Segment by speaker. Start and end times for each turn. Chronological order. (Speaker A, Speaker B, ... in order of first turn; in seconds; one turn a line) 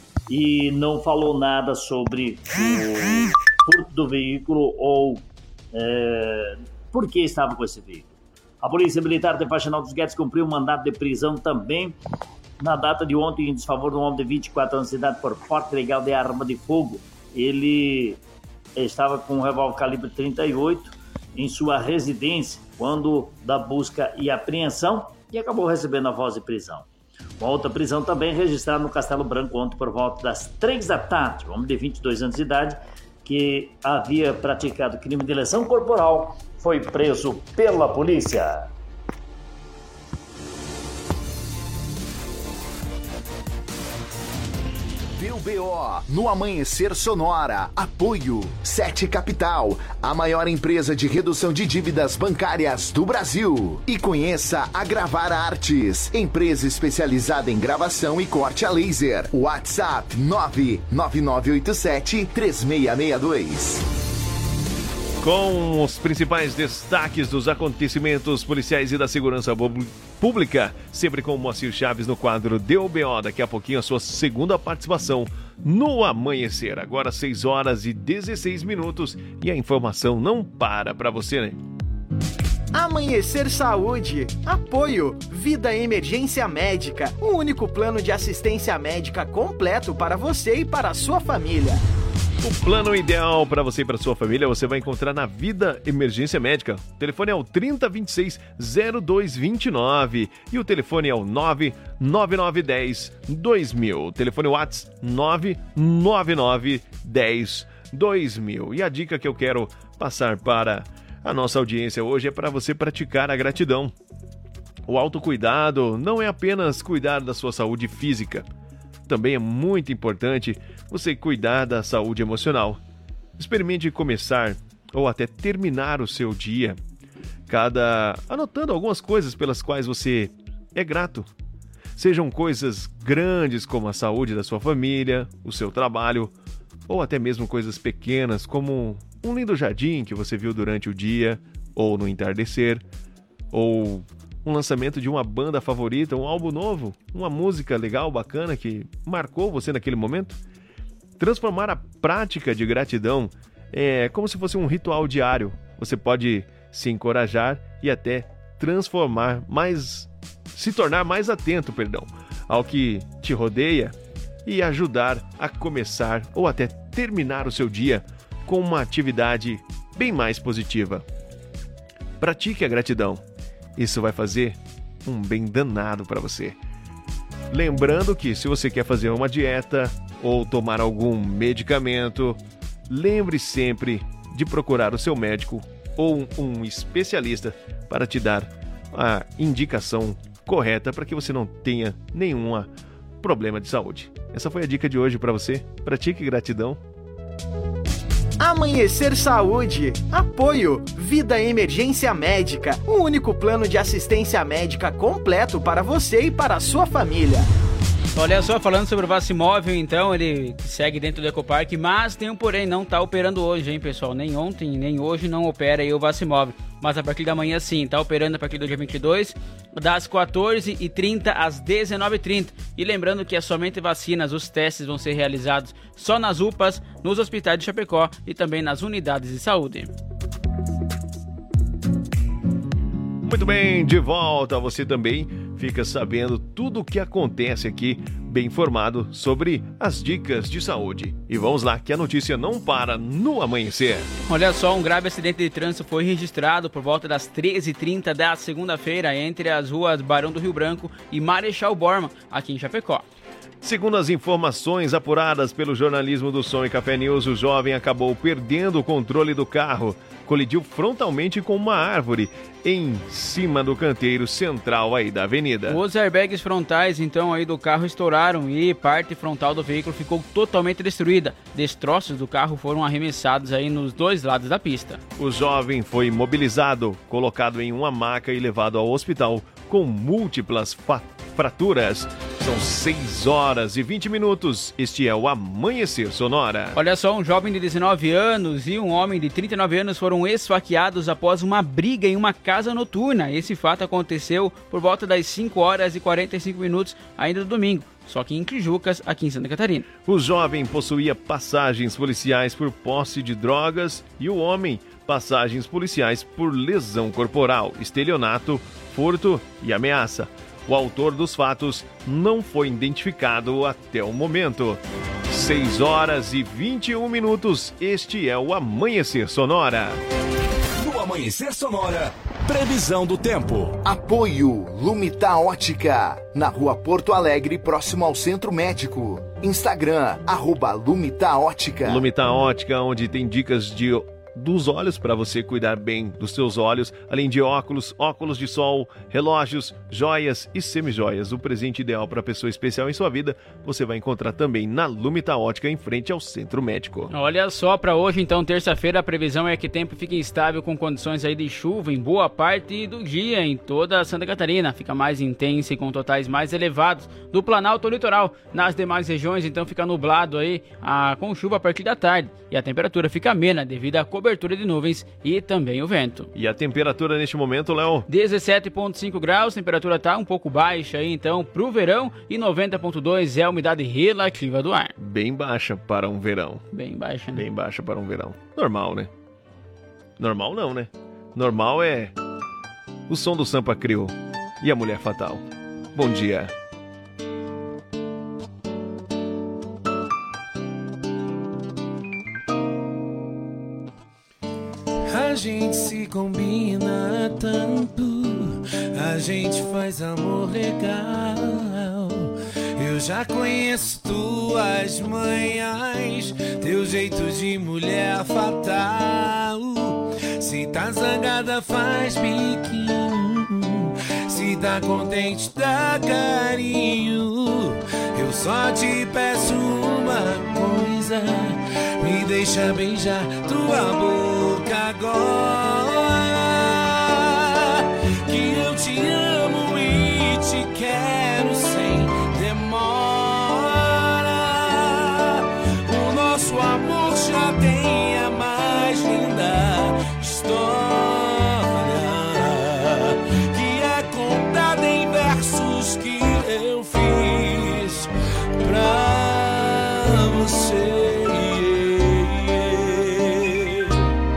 Speaker A: 0.3-11.9
Speaker A: 12.6-18.2
Speaker A: 18.8-26.9
Speaker A: 27.4-38.7
Speaker B: 45.2-63.8
Speaker C: 65.2-81.6
Speaker D: 82.7-91.8
Speaker C: 92.4-113.9
Speaker C: 114.9-118.5
Speaker C: 119.1-122.8
Speaker C: 123.4-126.8
Speaker C: 127.5-131.3
Speaker C: 132.0-136.3
Speaker C: 136.9-142.8
Speaker C: 143.5-150.4
Speaker C: 151.2-163.9
Speaker C: 164.5-171.0
Speaker C: 172.2-173.2
Speaker C: 173.8-176.6
Speaker C: 177.5-182.4
Speaker C: 182.9-192.7
Speaker C: 193.2-196.8
Speaker D: 198.4-207.5
Speaker E: 208.2-229.9
Speaker C: 233.2-244.1
Speaker E: 244.3-253.0
Speaker C: 253.6-265.8
Speaker E: 265.7-275.0
Speaker C: 275.2-286.8
Speaker E: 286.8-299.9
Speaker C: 300.1-320.0
Speaker F: 320.8-323.8
Speaker B: 323.8-332.1
Speaker C: 331.9-347.1
Speaker E: 347.1-366.3
Speaker C: 366.4-368.1
Speaker E: 368.1-374.9
Speaker C: 375.0-376.6
Speaker E: 376.7-377.4
Speaker C: 377.4-379.1
Speaker C: 380.2-382.1
Speaker C: 383.1-385.4
Speaker C: 385.9-386.5
Speaker G: 395.1-454.0